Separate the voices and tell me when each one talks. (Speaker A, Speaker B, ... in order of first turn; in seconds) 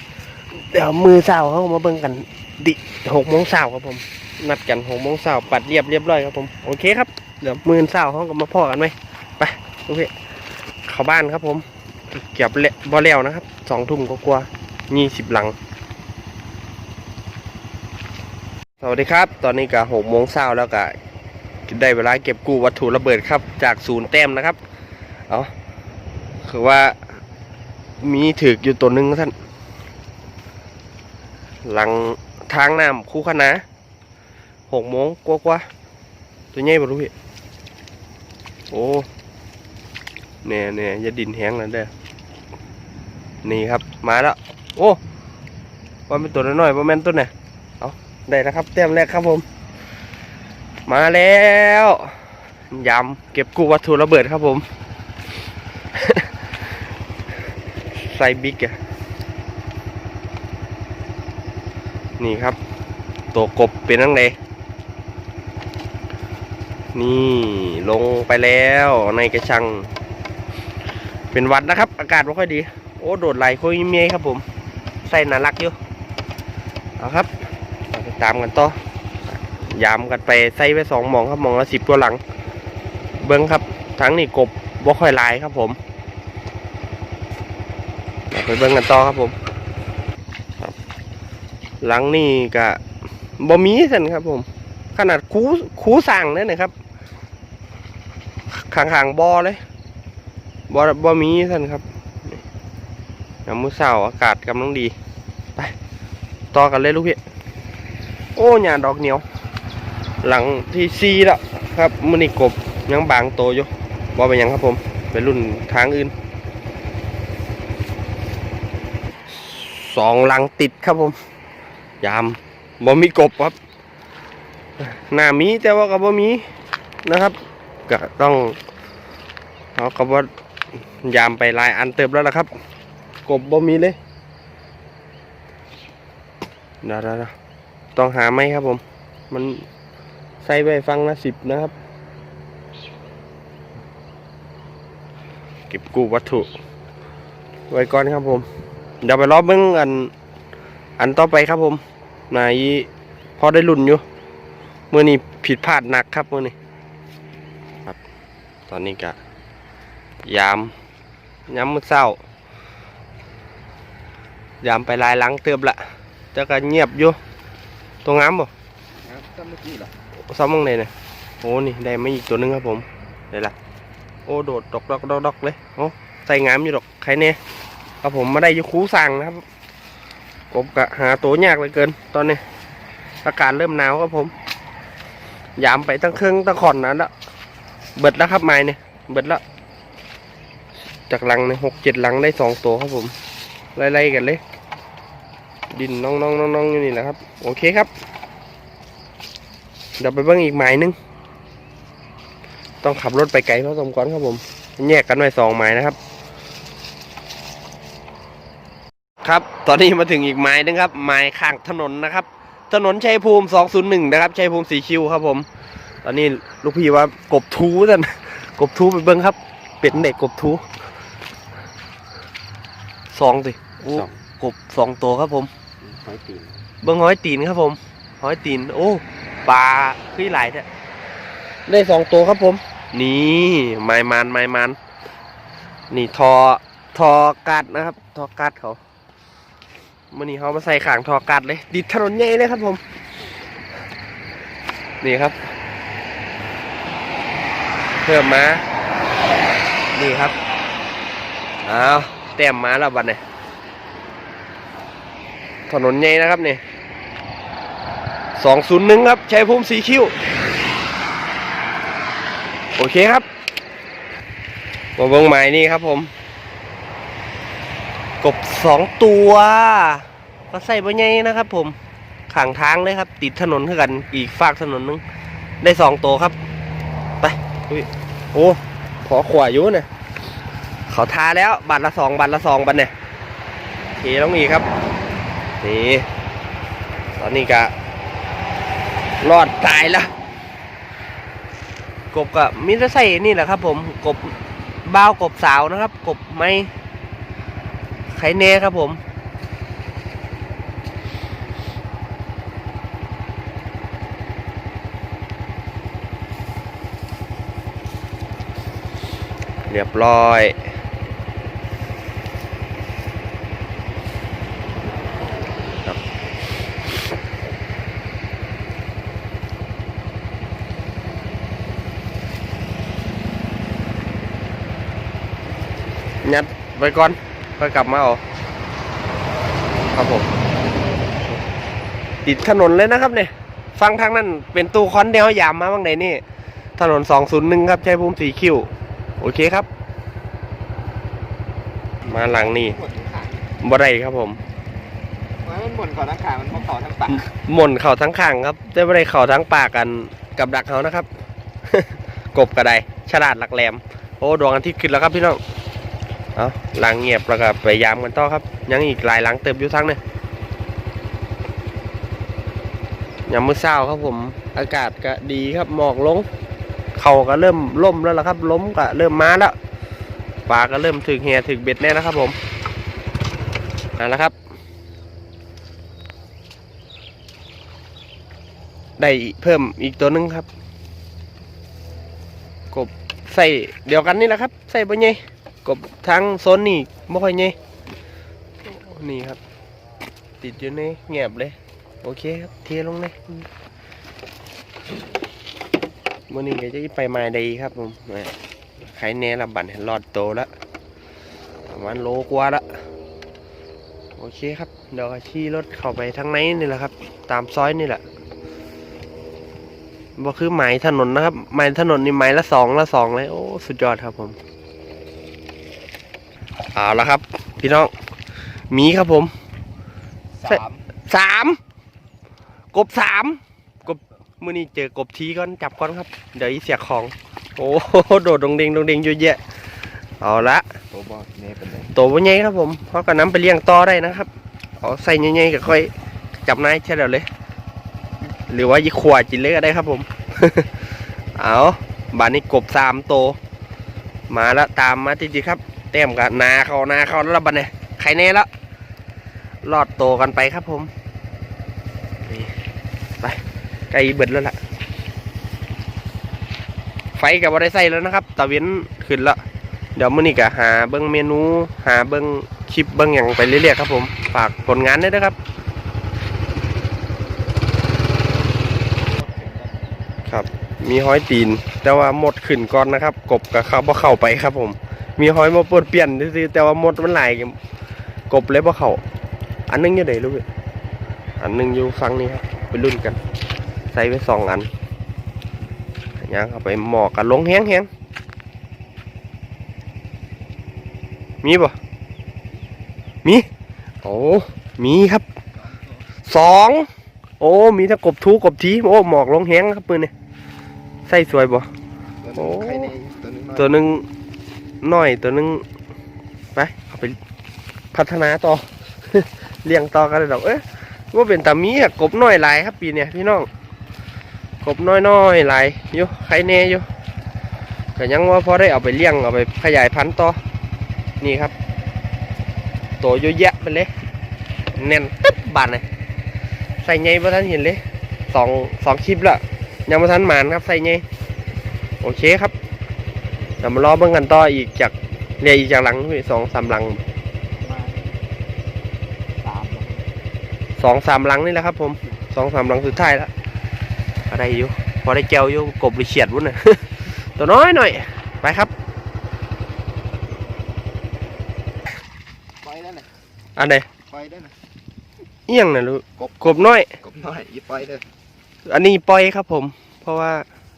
Speaker A: 0.4-10.1, 10.8-11.7, 12.2-15.6, 18.8-20.9, 21.7-24.6, 26.4-27.1, 28.0-29.3, 31.6-33.6, 34.7-35.6, 36.5-37.1, 38.7-39.1, 40.4-41.9, 43.4-45.0, 46.1-49.4, 50.9-52.2, 52.7-54.6, 55.9-56.5, 57.9-58.8, 62.2-62.6, 63.3-64.3, 66.9-69.9, 71.3-74.4, 75.0-75.8, 77.0-77.3, 77.9-78.8, 79.5-82.2, 83.2-85.8, 88.3-89.3, 91.8-92.8, 93.4-96.7, 98.5-99.6, 100.7-102.4, 103.5-104.9, 106.5-107.2, 108.3-109.2, 110.2-116.1, 119.3-121.2, 122.0-123.6, 124.8-126.4, 127.0-127.3, 127.9-128.6, 129.7-130.3, 131.0-132.5, 133.2-134.0, 136.8-137.3, 137.9-139.6, 140.4-141.7, 145.7-146.5, 147.7-148.4, 149.0-150.1, 151.0-154.0, 154.9-156.5, 158.7-159.2, 160.2-160.7, 161.5-162.2, 164.6-165.8, 166.3-167.2, 168.0-168.5, 170.2-170.9, 171.4-173.5, 174.2-177.4, 178.0-179.4, 180.5-182.4, 183.2-184.3, 185.6-187.1, 187.9-189.4, 191.1-193.1, 193.7-194.4, 195.7-197.9, 200.0-200.9, 202.8-206.0, 209.2-215.4, 216.0-220.6, 223.1-225.5, 226.8-230.7, 231.7-234.8, 235.9-238.8, 240.1-242.8, 245.0-245.5, 248.0-248.6, 249.9-250.3, 251.6-253.2, 255.7-256.6, 258.4-260.1, 262.8-263.2, 265.0-266.1, 268.2-271.7, 272.3-275.0, 275.6-276.4, 277.2-279.9, 280.9-282.9, 284.0-284.6, 285.6-286.1, 287.2-287.7, 289.2-290.1, 292.1-296.7, 298.1-299.0, 309.7-310.6, 326.2-328.2, 329.9-330.3, 332.2-336.2, 336.8-338.7, 339.2-339.7, 342.0-342.8, 343.6-344.4, 347.1-351.1, 351.7-355.4, 356.3-360.0, 363.3-366.3, 366.9-369.5, 370.5-372.4, 374.0-374.3, 379.0-380.5, 382.7-387.5, 388.6-389.4, 390.4-393.4, 396.3-400.5, 401.7-402.8, 404.2-408.0, 410.2-414.4, 416.7-417.9, 418.7-419.3, 420.4-421.6, 422.7-429.4, 430.2-430.8, 431.9-434.3, 434.8-435.9, 436.4-437.3, 438.5-443.4, 444.3-448.5, 449.6-450.9, 452.2-452.5, 453.2-454.6, 457.1-459.4, 459.9-465.4, 470.2-477.6, 478.3-479.0, 479.7-480.4, 481.4-483.2, 483.9-484.7, 486.2-487.9, 491.4-491.8, 494.0-495.2, 496.3-496.9, 497.4-500.1, 501.1-501.7, 502.3-502.9, 503.5-504.1, 504.8-505.6, 506.5-507.2, 507.9-513.5, 514.6-516.9, 518.0-520.4, 521.2-521.5, 523.0-523.9, 524.8-525.8, 526.8-531.0, 532.0-532.5, 533.6-537.0, 540.8-543.3, 544.3-548.7, 553.5-553.9, 555.5-556.9, 558.7-560.4
Speaker B: 169.0-169.9, 225.8-226.6, 342.1-343.4, 345.4-347.2, 420.4-420.8, 430.9-431.9, 468.9-469.9, 502.2-503.7, 537.6-538.2, 539.4-540.1, 552.6-553.1, 554.1-554.5, 556.2-558.0